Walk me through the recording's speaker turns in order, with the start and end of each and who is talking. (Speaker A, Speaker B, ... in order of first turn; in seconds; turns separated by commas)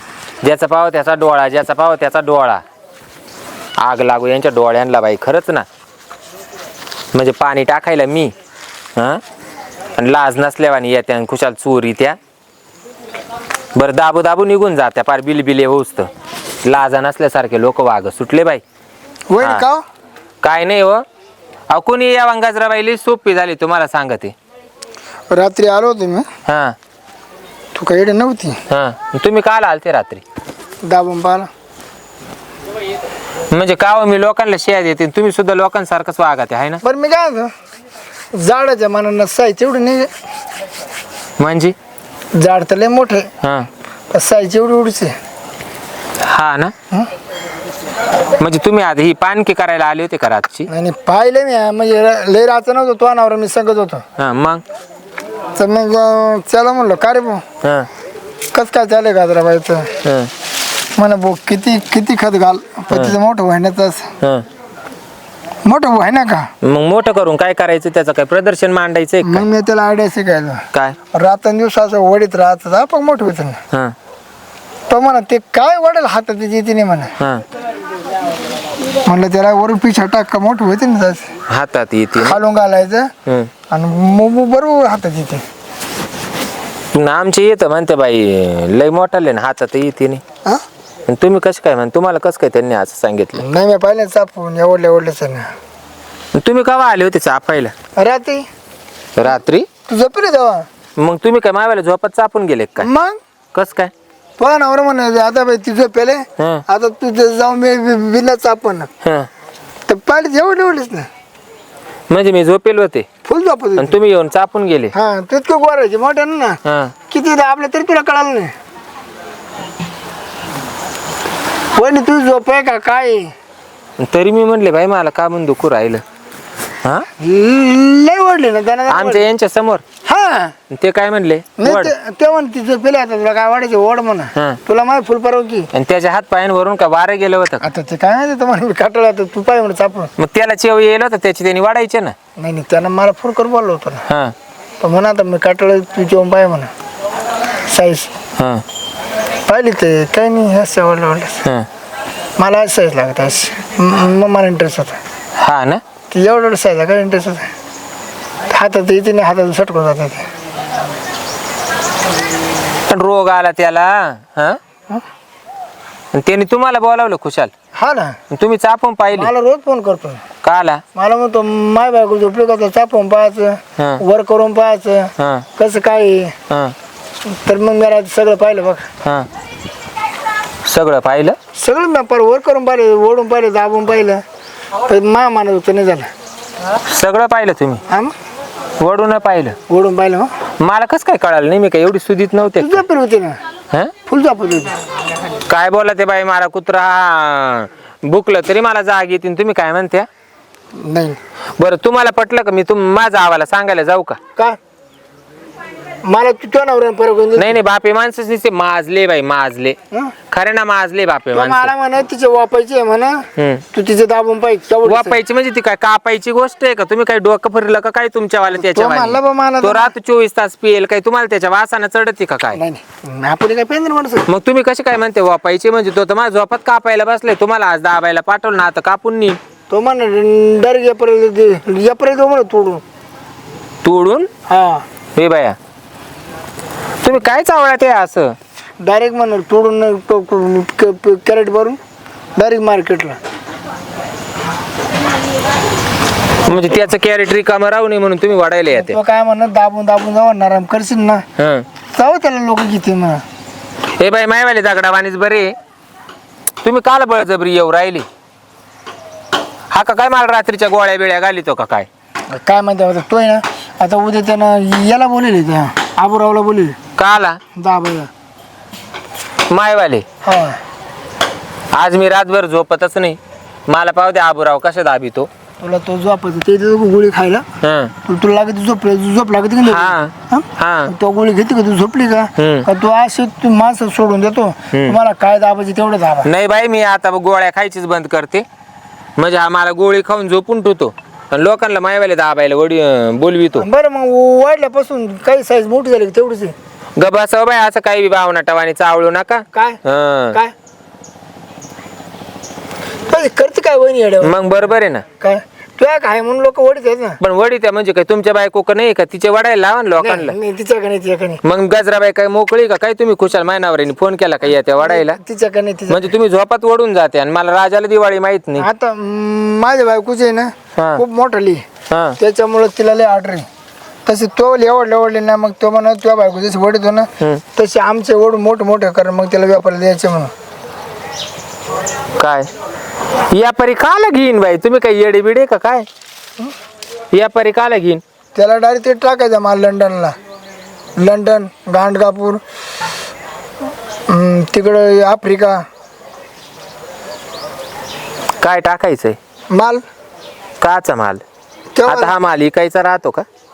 Speaker A: 0.4-2.6, Speaker A: 3.8-5.7, Speaker A: 7.1-8.3, Speaker A: 8.9-9.2, Speaker A: 10.0-12.2, Speaker A: 13.7-16.1, Speaker A: 16.6-18.6, Speaker B: 19.3-19.8, Speaker A: 19.4-19.6, Speaker A: 20.4-21.0, Speaker A: 21.7-24.3, Speaker B: 25.3-26.3, Speaker A: 26.4-26.8, Speaker B: 27.7-28.6, Speaker A: 28.7-30.2, Speaker B: 30.8-31.5, Speaker A: 33.5-36.8, Speaker B: 36.8-37.5, Speaker B: 38.3-40.1, Speaker A: 41.4-41.7, Speaker B: 42.4-43.3, Speaker A: 43.4-43.7, Speaker B: 44.1-45.1, Speaker A: 46.2-46.7, Speaker A: 48.4-50.7, Speaker B: 50.7-54.0, Speaker A: 54.2-54.6, Speaker B: 55.6-57.4, Speaker A: 57.6-57.9, Speaker B: 58.5-59.9, Speaker A: 60.0-60.3, Speaker B: 61.0-64.1, Speaker A: 62.9-63.1, Speaker B: 65.6-66.5, Speaker A: 66.6-69.5, Speaker B: 69.2-73.6, Speaker A: 70.7-71.0, Speaker B: 74.9-77.1, Speaker A: 77.2-77.4, Speaker B: 79.0-81.3, Speaker A: 81.5-82.4, Speaker B: 82.2-83.1, Speaker A: 83.2-83.5, Speaker B: 83.7-85.4, Speaker A: 86.9-90.2, Speaker A: 91.1-93.5, Speaker B: 93.3-95.5, Speaker A: 96.3-97.7, Speaker B: 98.0-98.4, Speaker A: 99.2-99.7, Speaker B: 99.9-100.7, Speaker A: 101.0-102.9, Speaker B: 102.8-103.2, Speaker A: 103.5-103.9, Speaker B: 104.4-108.9, Speaker A: 106.4-106.6, Speaker A: 109.0-109.3, Speaker B: 109.9-111.1, Speaker A: 112.1-113.1, Speaker B: 113.2-114.0, Speaker A: 113.8-114.9, Speaker B: 114.9-118.5, Speaker A: 116.6-117.0, Speaker B: 121.8-123.3, Speaker A: 124.0-126.0, Speaker B: 127.2-129.2, Speaker A: 128.9-129.8, Speaker B: 130.0-130.5, Speaker A: 130.7-131.9, Speaker B: 131.6-135.7, Speaker A: 134.3-134.6, Speaker A: 135.7-137.7, Speaker B: 137.6-140.1, Speaker A: 140.2-142.1, Speaker B: 142.4-144.0, Speaker A: 144.1-144.3, Speaker B: 144.8-146.7, Speaker B: 147.7-148.1, Speaker A: 148.4-148.6, Speaker B: 149.5-151.4, Speaker B: 152.4-155.0, Speaker A: 155.4-155.8, Speaker B: 156.1-157.5, Speaker B: 158.5-160.2, Speaker A: 162.9-164.6, Speaker A: 166.1-167.5, Speaker B: 167.8-168.2, Speaker A: 168.3-169.3, Speaker B: 169.1-170.2, Speaker A: 170.4-170.8, Speaker B: 170.9-176.3, Speaker A: 173.8-174.0, Speaker A: 175.2-175.5, Speaker A: 176.5-176.7, Speaker B: 177.2-178.9, Speaker A: 180.6-181.3, Speaker B: 181.6-184.2, Speaker B: 184.8-186.1, Speaker A: 186.9-187.8, Speaker A: 188.8-189.6, Speaker B: 189.7-190.3, Speaker A: 190.6-192.8, Speaker B: 192.6-193.4, Speaker B: 194.1-194.7, Speaker A: 195.5-200.1, Speaker B: 200.8-201.2, Speaker A: 201.6-204.2, Speaker B: 206.0-207.6, Speaker A: 207.3-211.7, Speaker B: 211.3-215.2, Speaker A: 213.3-213.7, Speaker A: 214.8-222.6, Speaker B: 218.5-219.9, Speaker B: 222.5-224.3, Speaker A: 224.2-229.4, Speaker B: 229.7-232.8, Speaker A: 233.8-234.3, Speaker B: 234.5-234.8, Speaker A: 235.2-235.6, Speaker A: 237.0-238.3, Speaker B: 238.8-241.8, Speaker B: 242.4-243.2, Speaker A: 246.4-249.0, Speaker B: 248.7-251.2, Speaker A: 251.4-251.7, Speaker B: 251.9-253.2, Speaker A: 253.9-255.5, Speaker A: 256.6-258.1, Speaker A: 259.7-261.9, Speaker B: 262.3-266.8, Speaker A: 266.9-267.4, Speaker B: 267.5-268.1, Speaker A: 269.5-270.0, Speaker B: 270.2-270.6, Speaker A: 271.7-275.3, Speaker B: 275.6-277.4, Speaker A: 277.6-277.9, Speaker B: 278.1-286.3, Speaker A: 279.6-280.9, Speaker A: 282.4-282.7, Speaker A: 284.7-285.0, Speaker A: 286.2-288.4, Speaker A: 289.2-293.7, Speaker B: 293.5-296.5, Speaker A: 296.9-300.4, Speaker B: 299.5-299.8, Speaker B: 303.1-304.4, Speaker A: 304.2-305.0, Speaker B: 305.2-307.2, Speaker A: 307.2-310.4, Speaker B: 310.0-311.4, Speaker A: 311.4-315.2, Speaker B: 314.8-316.1, Speaker A: 315.9-318.7, Speaker B: 318.6-321.6, Speaker A: 320.8-321.0, Speaker A: 321.9-322.2, Speaker B: 322.2-323.4, Speaker B: 324.1-330.3, Speaker A: 332.2-332.5, Speaker A: 333.3-335.9, Speaker A: 337.1-338.0, Speaker B: 338.4-340.1, Speaker B: 341.0-342.4, Speaker B: 344.1-345.6, Speaker A: 348.4-349.2, Speaker B: 349.5-349.8, Speaker A: 350.6-351.2, Speaker B: 351.7-352.1, Speaker A: 351.8-353.2